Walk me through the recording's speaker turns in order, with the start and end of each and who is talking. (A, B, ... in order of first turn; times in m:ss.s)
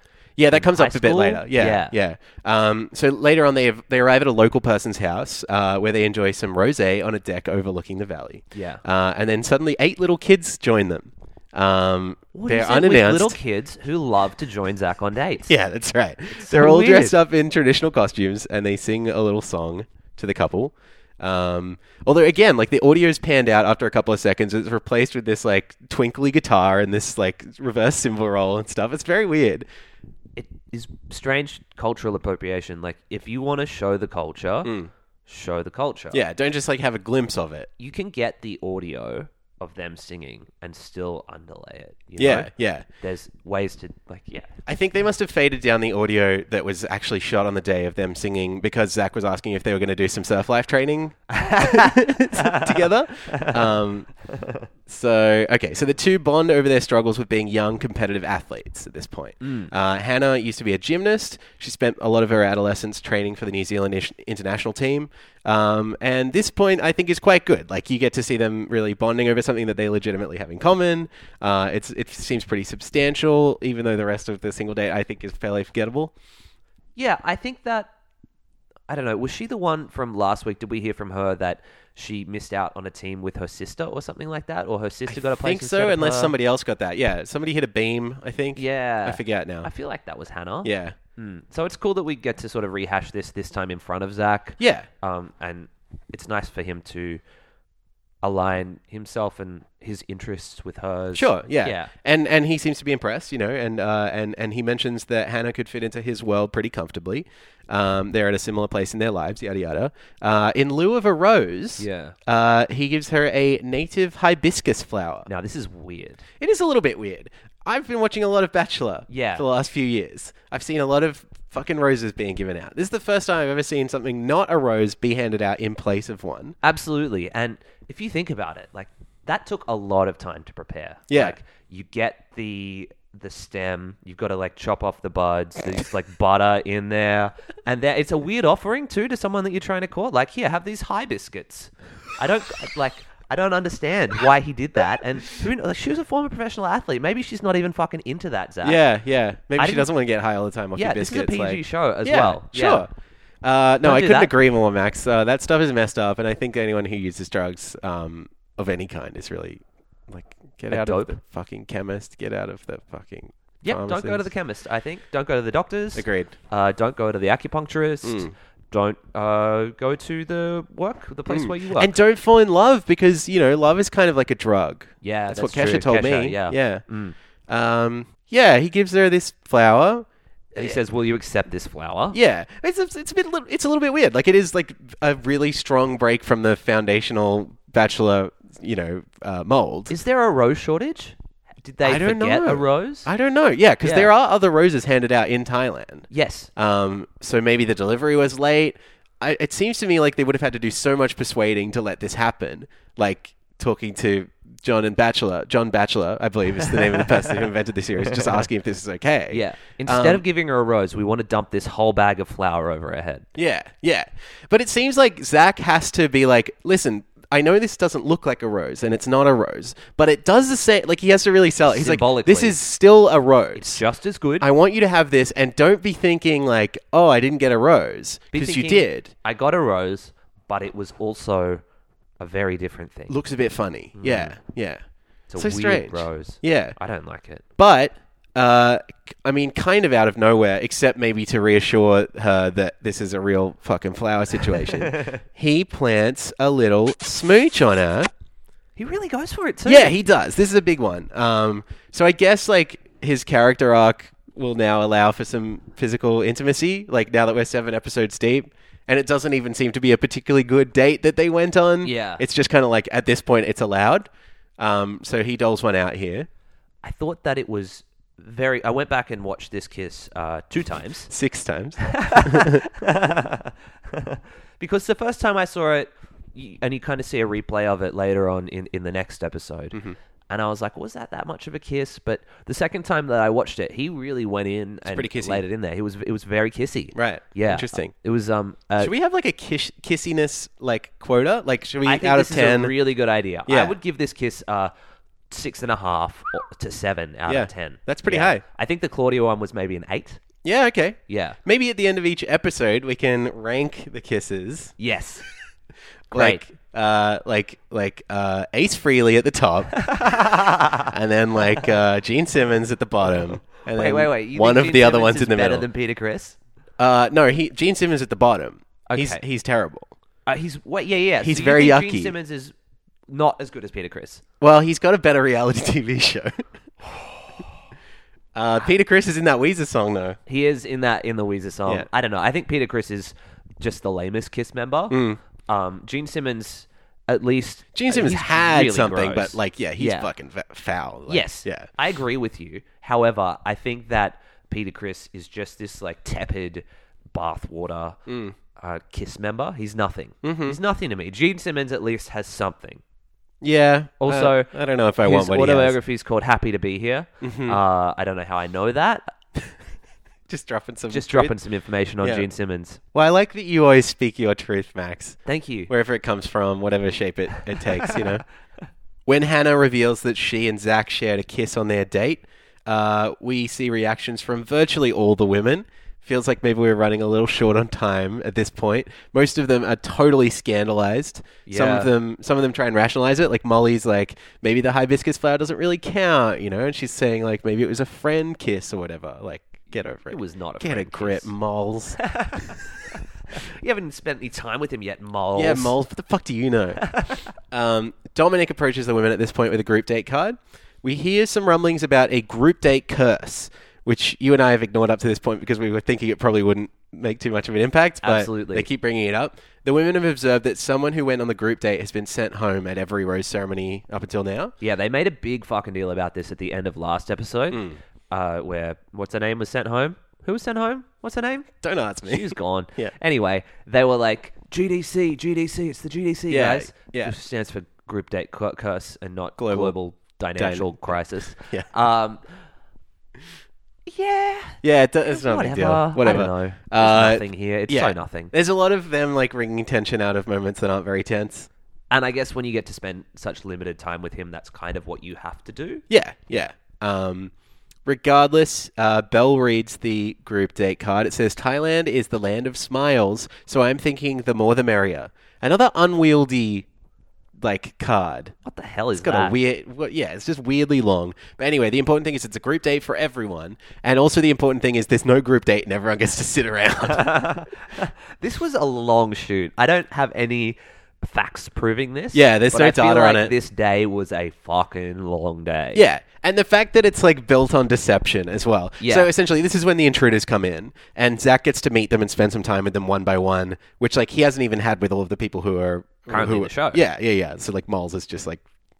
0:00.4-0:13.4 A
0:00.5-0:02.0 B
0:08.5-0:08.8 B
0:12.3-0:15.5 B
0:15.5-0:29.7 A
0:16.3-0:17.2 B
0:30.4-0:34.7 B
0:34.6-0:34.9 A
0:35.3-0:36.2 B
0:36.1-0:37.7 A
0:37.8-0:44.5 B
0:42.2-0:42.8 A
0:44.7-0:54.1 A
0:51.3-0:53.6 B
0:54.3-0:54.6 B
0:54.9-1:16.1 A
0:59.4-0:59.7 B
1:17.0-1:17.9 B
1:18.9-1:26.3 B
1:25.1-1:29.7 A
1:28.6-1:37.2 B
1:30.6-1:31.0 A
1:34.6-1:34.9 A
1:38.2-1:41.9 B
1:41.1-1:55.3 A
1:51.8-1:52.2 B
1:55.3-1:56.2 B
1:56.4-2:06.6 A
1:59.1-1:59.4 B
2:06.6-2:28.8 B
2:11.1-2:11.4 A
2:28.6-2:32.9 A
2:29.6-2:29.9 B
2:30.8-2:32.8 B
2:33.4-2:44.3 A
2:33.8-2:34.3 B
2:40.7-2:41.2 B
2:43.6-2:52.0 B
2:46.0-2:46.4 A
2:48.0-2:48.3 A
2:51.3-2:56.8 A
2:55.0-2:57.2 B
2:57.5-3:00.8 A
3:00.6-3:02.2 B
3:02.1-3:09.9 A
3:09.9-3:13.1 B
3:11.8-3:30.2 A
3:13.8-3:14.1 B
3:16.1-3:16.5 B
3:26.9-3:27.4 B
3:29.3-3:33.3 B
3:33.4-3:43.8 A
3:41.6-3:42.6 B
3:43.6-3:44.5 B
3:44.4-3:49.1 A
3:48.3-3:51.6 B
3:52.2-3:53.2 B
3:53.1-3:54.8 A
3:54.0-3:54.4 B
3:55.3-3:57.4 B
3:55.4-3:56.8 A
3:57.6-4:08.1 A
4:04.9-4:05.2 B
4:08.8-4:09.9 B
4:09.6-4:26.3 A
4:21.8-4:22.2 B
4:26.8-4:31.1 B
4:31.1-4:32.6 A
4:31.8-4:48.9 B
4:44.8-4:45.4 A
4:47.0-4:47.9 A
4:48.8-4:52.8 A
4:51.8-4:54.7 B
4:53.5-4:53.8 A
4:55.3-5:00.2 B
4:57.3-4:58.4 A
5:00.4-5:04.7 A
5:01.1-5:01.4 B
5:04.8-5:05.2 B
5:06.1-5:15.7 A
5:06.1-5:06.4 B
5:09.8-5:10.9 B
5:13.7-5:16.4 B
5:16.8-5:19.9 A
5:18.9-5:19.2 B
5:20.3-5:22.5 B
5:21.2-5:22.2 A
5:23.1-5:24.2 B
5:24.4-5:26.5 A
5:28.4-5:30.2 A
5:30.3-5:40.1 B
5:34.9-5:35.2 A
5:37.8-5:41.7 A
5:41.1-5:48.0 B
5:48.1-5:48.4 A
5:48.6-5:52.8 B
5:50.2-5:50.6 A
5:53.4-5:55.8 A
5:54.0-5:54.5 B
5:55.0-5:59.1 B
5:57.2-5:57.6 A
6:00.3-6:01.4 A
6:00.9-6:02.8 B
6:02.0-6:02.3 A
6:02.9-6:08.2 A
6:05.3-6:05.7 B
6:09.1-6:32.0 A
6:21.5-6:21.9 B
6:30.1-6:31.3 B
6:32.0-6:35.8 B
6:35.4-6:54.5 A
6:36.8-6:37.2 B
6:48.0-6:48.7 B
6:54.6-7:01.5 B
6:57.5-6:57.8 A
7:01.6-7:02.9 A
7:02.0-7:12.2 B
7:06.3-7:07.2 A
7:09.4-7:09.7 A
7:10.4-7:11.7 A
7:13.9-7:18.3 B
7:14.6-7:21.5 A
7:21.9-7:25.8 B
7:25.9-7:27.3 A
7:27.9-7:36.7 A
7:37.4-7:38.3 A
7:38.4-7:39.4 B
7:39.0-7:47.2 A
7:46.9-7:55.8 B
7:52.1-7:53.3 A
7:55.8-8:08.4 A
7:58.8-7:59.1 B
8:06.1-8:06.8 B